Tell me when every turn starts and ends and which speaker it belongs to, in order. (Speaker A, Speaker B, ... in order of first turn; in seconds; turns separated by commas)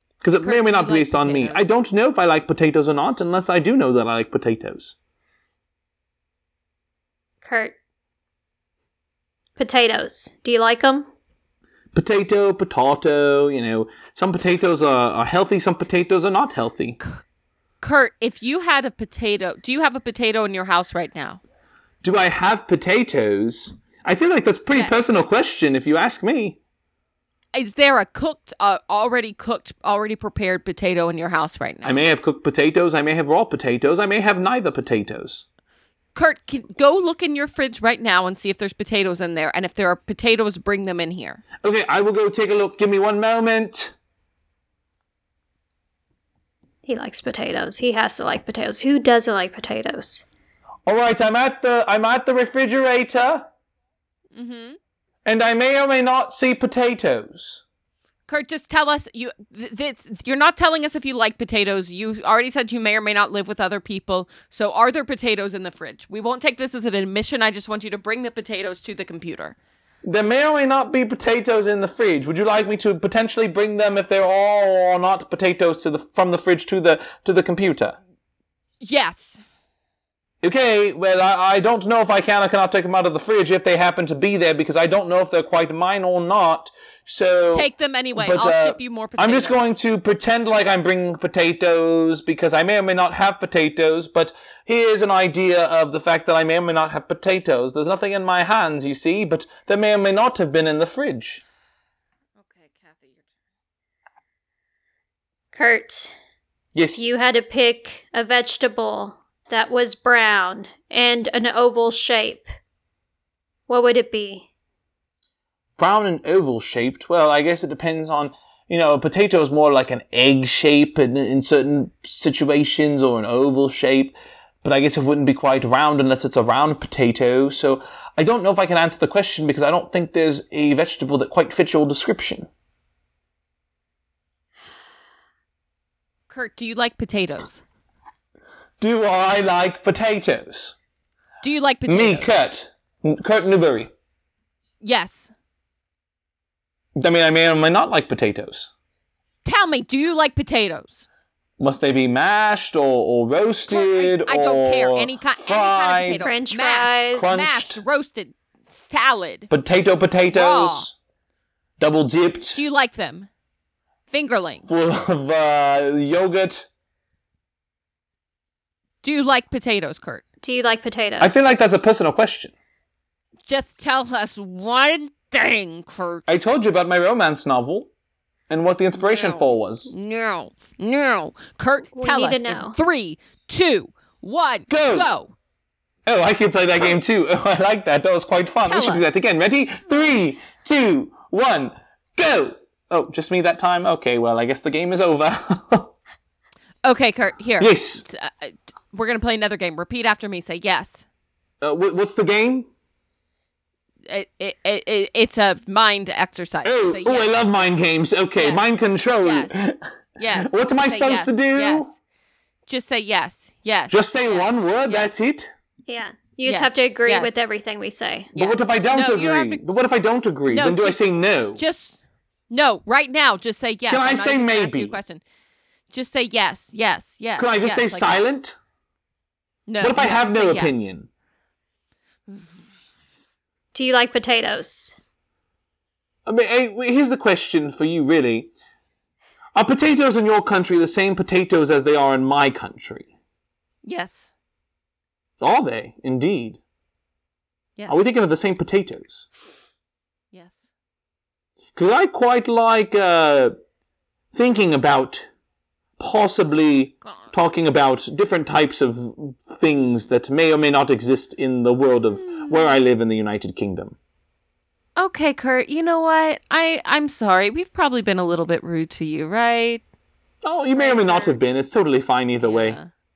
Speaker A: 0.2-4.9, Speaker B: 0.4-1.7, Speaker C: 7.4-7.7, Speaker C: 9.6-11.1, Speaker A: 11.9-17.0, Speaker B: 17.8-21.4, Speaker A: 22.0-26.6, Speaker B: 24.7-25.1, Speaker B: 27.5-32.1, Speaker A: 31.8-35.4, Speaker B: 36.1-41.4, Speaker A: 41.6-43.9, Speaker C: 46.9-50.2, Speaker A: 50.9-53.5, Speaker B: 54.3-54.8, Speaker A: 55.2-57.6, Speaker B: 58.3-69.5, Speaker A: 70.0-78.0, Speaker B: 78.8-79.4, Speaker A: 80.4-101.4, Speaker B: 87.5-89.7, Speaker B: 102.4-103.2, Speaker C: 105.5-106.1, Speaker A: 106.7-107.0, Speaker C: 106.9-112.5, Speaker C: 113.7-114.5, Speaker A: 115.8-132.5, Speaker B: 136.3-137.6, Speaker A: 138.8-140.8, Speaker B: 141.4-142.3, Speaker A: 141.9-143.9, Speaker B: 144.8-145.3, Speaker A: 147.0-148.7, Speaker B: 149.4-151.1, Speaker A: 151.6-156.2, Speaker B: 153.7-159.5, Speaker C: 156.2-157.3, Speaker A: 157.1-157.8, Speaker A: 159.5-160.9, Speaker B: 160.3-160.9, Speaker A: 161.8-162.6, Speaker B: 162.5-163.3, Speaker B: 164.1-164.7, Speaker A: 164.7-166.7, Speaker B: 169.0-170.2, Speaker C: 170.4-171.5, Speaker A: 171.2-172.5, Speaker B: 173.4-176.3, Speaker A: 176.3-177.9, Speaker A: 178.5-179.9, Speaker B: 178.9-185.3, Speaker C: 181.9-182.8, Speaker A: 184.7-185.1, Speaker A: 186.1-195.9, Speaker B: 188.6-189.1, Speaker B: 196.8-201.0, Speaker A: 197.6-198.0, Speaker A: 201.6-202.7, Speaker B: 204.1-207.3, Speaker A: 206.6-209.8, Speaker B: 209.2-209.6, Speaker B: 210.2-212.0, Speaker A: 210.3-211.9, Speaker B: 212.7-215.1, Speaker A: 213.9-215.5, Speaker C: 215.9-218.3, Speaker B: 216.5-217.3, Speaker B: 218.3-219.6, Speaker A: 218.3-221.6, Speaker B: 220.5-221.0, Speaker B: 221.5-225.2, Speaker A: 223.9-225.0, Speaker B: 225.9-228.2, Speaker A: 227.4-228.6, Speaker B: 229.7-230.9, Speaker A: 229.8-231.1, Speaker C: 233.7-234.9, Speaker A: 236.2-238.5, Speaker A: 239.5-243.1, Speaker B: 243.8-244.3, Speaker A: 245.4-246.6, Speaker A: 247.9-249.2, Speaker B: 250.3-250.7, Speaker A: 251.7-253.6, Speaker A: 254.3-255.3, Speaker A: 256.0-263.9, Speaker B: 257.1-257.3, Speaker B: 262.2-262.7, Speaker B: 265.0-269.8, Speaker A: 270.4-272.8, Speaker B: 270.7-271.4, Speaker B: 272.4-272.9